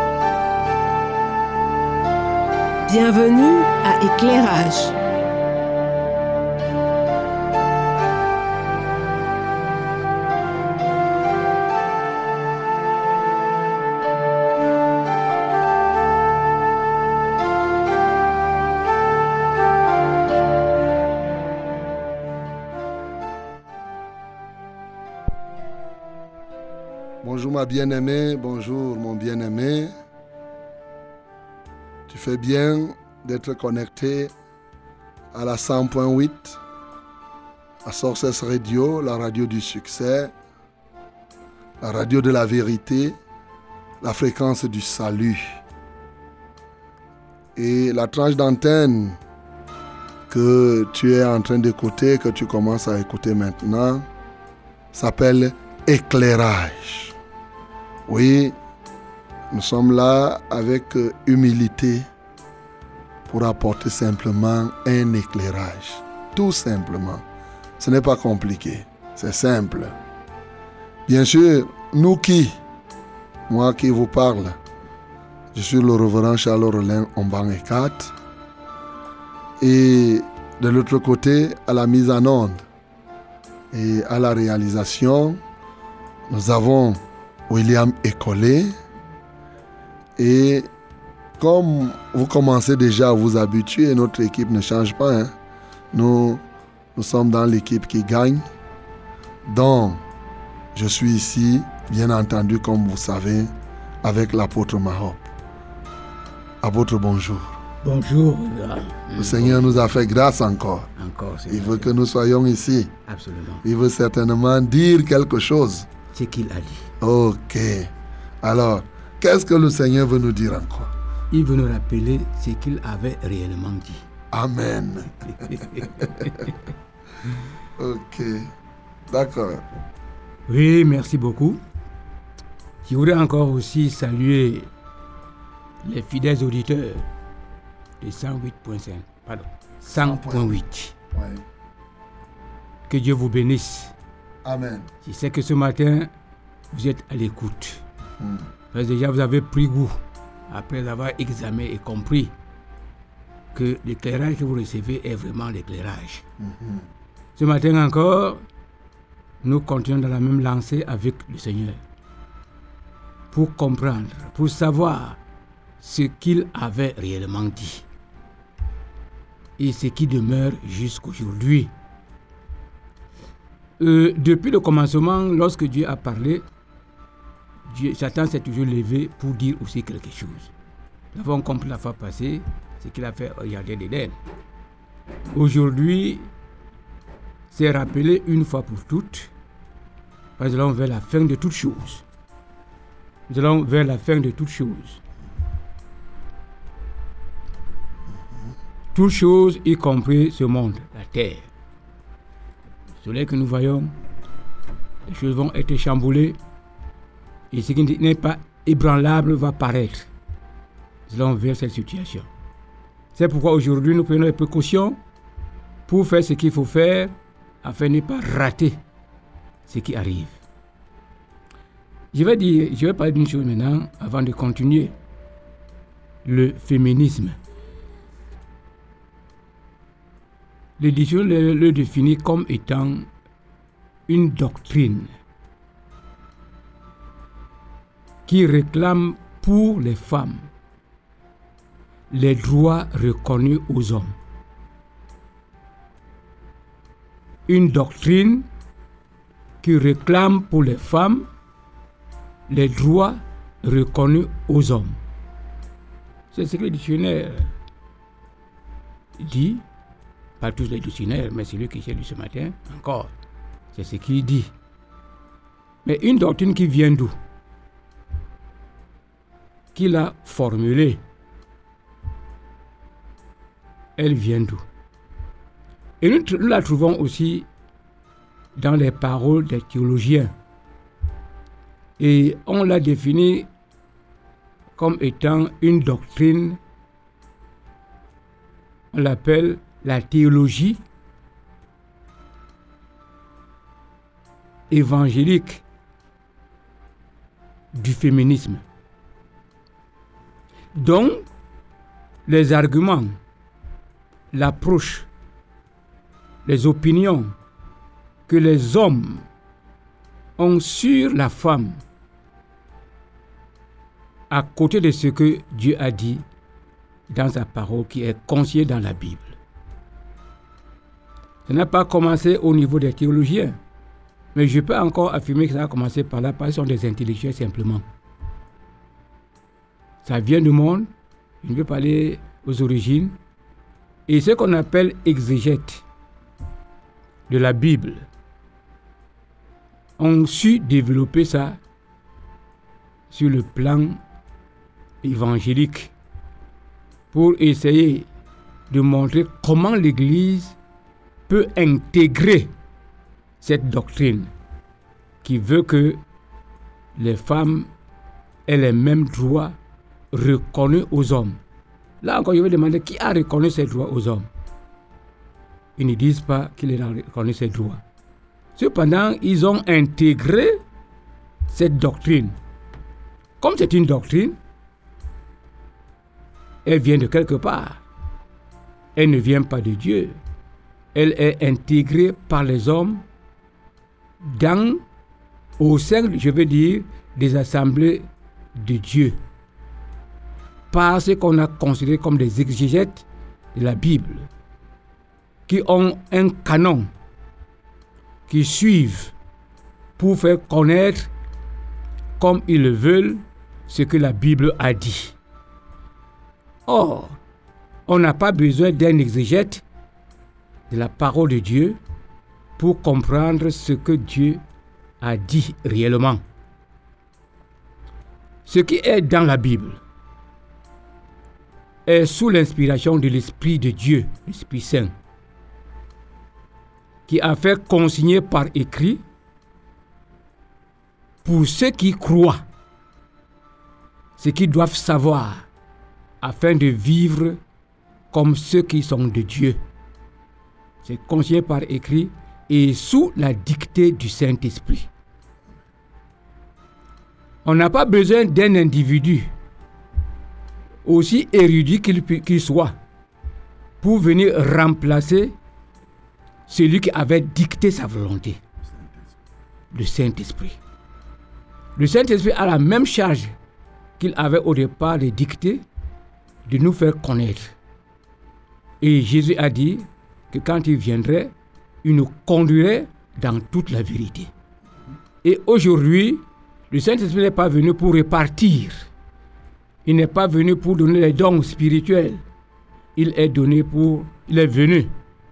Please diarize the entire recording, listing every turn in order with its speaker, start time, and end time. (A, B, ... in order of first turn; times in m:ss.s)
0:02.8-0:05.0 A
0:27.2-0:29.9 B
0:32.1-0:34.3 B
0:35.3-0:36.6 B
0:37.8-0:40.3 B
0:41.8-0:43.2 B
0:44.0-0:45.6 B
0:47.6-0:49.2 B
0:50.3-0:54.0 B
0:54.9-0:57.2 B
0:58.1-0:58.6 B
0:59.5-1:02.1 B
1:03.3-1:07.2 B
1:07.8-1:10.0 B
1:11.0-1:12.6 B
1:13.5-1:14.6 B
1:15.5-1:18.1 B
1:19.6-1:22.6 B
1:23.7-1:25.4 B
1:26.3-1:28.7 B
1:30.2-1:30.7 B
1:31.4-1:35.3 B
1:35.9-1:36.4 B
1:36.9-1:38.5 B
1:39.4-1:40.0 B
1:40.7-1:45.3 B
1:46.6-1:47.6 B
1:47.8-1:49.8 C
1:49.2-1:50.9 B
1:51.0-1:51.9 C
1:51.5-1:52.9 B
1:53.1-1:53.6 C
1:53.6-1:55.9 B
1:56.1-1:56.9 C
1:57.0-1:57.9 B
1:58.4-2:00.9 B
2:01.3-2:04.0 C
2:04.3-2:06.1 B
2:05.3-2:06.5 C
2:07.8-2:08.5 B
2:09.1-2:09.6 B
2:10.5-2:11.6 C
2:12.8-2:14.7 C
2:15.8-2:17.0 C
2:18.0-2:20.9 C
2:19.9-2:20.6 B
2:21.1-2:21.4 B
2:22.9-2:23.9 C
2:24.4-2:24.9 B
2:25.0-2:26.1 C
2:26.7-2:27.8 C
2:28.7-2:30.0 C
2:30.5-2:32.3 C
2:33.5-2:36.2 C
2:36.4-2:36.8 B
2:37.4-2:38.4 C
2:39.4-2:41.8 C
2:43.3-2:45.2 C
2:45.8-2:47.8 C
2:49.6-2:51.7 C
2:53.8-2:56.4 C
2:57.7-3:00.5 C
3:01.1-3:04.2 C
3:05.3-3:06.3 C
3:07.5-3:09.3 C
3:10.4-3:12.0 C
3:13.3-3:15.0 C
3:18.9-3:21.4 C
3:23.0-3:23.9 C
3:25.1-3:26.4 C
3:27.5-3:30.1 C
3:31.1-3:32.3 C
3:33.2-3:35.0 C
3:35.9-3:38.8 C
3:39.6-3:40.4 C
3:42.1-3:44.9 C
3:46.2-3:47.4 C
3:50.8-3:53.1 C
3:54.1-3:55.1 C
3:58.2-4:00.5 C
4:02.1-4:04.1 C
4:07.5-4:08.4 C
4:09.6-4:11.3 C
4:12.5-4:15.0 C
4:16.3-4:17.5 C
4:19.2-4:19.6 C
4:20.4-4:23.1 C
4:23.7-4:24.5 C
4:25.8-4:27.1 C
4:29.7-4:31.0 C
4:34.0-4:34.6 C
4:36.0-4:37.5 C
4:38.6-4:40.3 C
4:42.0-4:43.5 C
4:44.8-4:46.6 C
4:48.9-4:50.8 C
4:54.7-4:55.6 C
4:57.7-4:58.6 C
5:00.7-5:01.3 C
5:02.2-5:03.2 C
5:04.3-5:05.1 C
5:06.4-5:07.3 C
5:08.3-5:09.2 C
5:10.4-5:11.8 C
5:14.3-5:16.2 C
5:17.1-5:19.4 C
5:21.4-5:23.6 C
5:24.3-5:27.8 C
5:30.0-5:30.9 C
5:31.4-5:33.2 C
5:34.1-5:35.8 C
5:37.3-5:38.1 C
5:40.0-5:41.6 C
5:43.1-5:44.0 C
5:45.0-5:45.9 C
5:47.1-5:48.1 C
5:48.7-5:50.6 C
5:51.3-5:52.5 C
5:53.4-5:54.3 C
5:55.2-5:56.0 C
5:57.0-5:57.7 C
5:58.5-5:59.6 C
6:00.1-6:01.4 C
6:02.0-6:04.3 C
6:05.8-6:07.8 C
6:08.6-6:10.6 C
6:11.5-6:12.3 C
6:13.4-6:14.4 C
6:16.6-6:17.8 C
6:19.0-6:20.2 C
6:20.9-6:23.0 C
6:24.2-6:24.8 C
6:25.6-6:29.2 C
6:30.7-6:34.3 C
6:35.5-6:36.9 C
6:38.3-6:39.1 C
6:40.0-6:41.1 C
6:42.2-6:45.2 C
6:46.7-6:47.2 C
6:47.9-6:49.6 C
6:50.7-6:51.8 C
6:52.6-6:54.4 C
6:55.0-6:56.2 C
6:58.4-6:59.8 C
7:01.8-7:04.9 C
7:07.1-7:09.0 C
7:11.2-7:12.4 C
7:14.2-7:15.4 C
7:16.2-7:17.4 C
7:18.1-7:19.6 C
7:20.8-7:24.9 C
7:27.4-7:29.3 C
7:30.8-7:32.7 C
7:33.8-7:35.3 C
7:36.5-7:38.4 C
7:39.7-7:40.6 C
7:41.8-7:43.3 C
7:44.0-7:45.6 C
7:46.5-7:47.5 C
7:48.8-7:51.3 C
7:51.8-7:54.3 C
7:55.2-7:58.9 C
7:59.8-8:02.2 C
8:03.0-8:04.9 C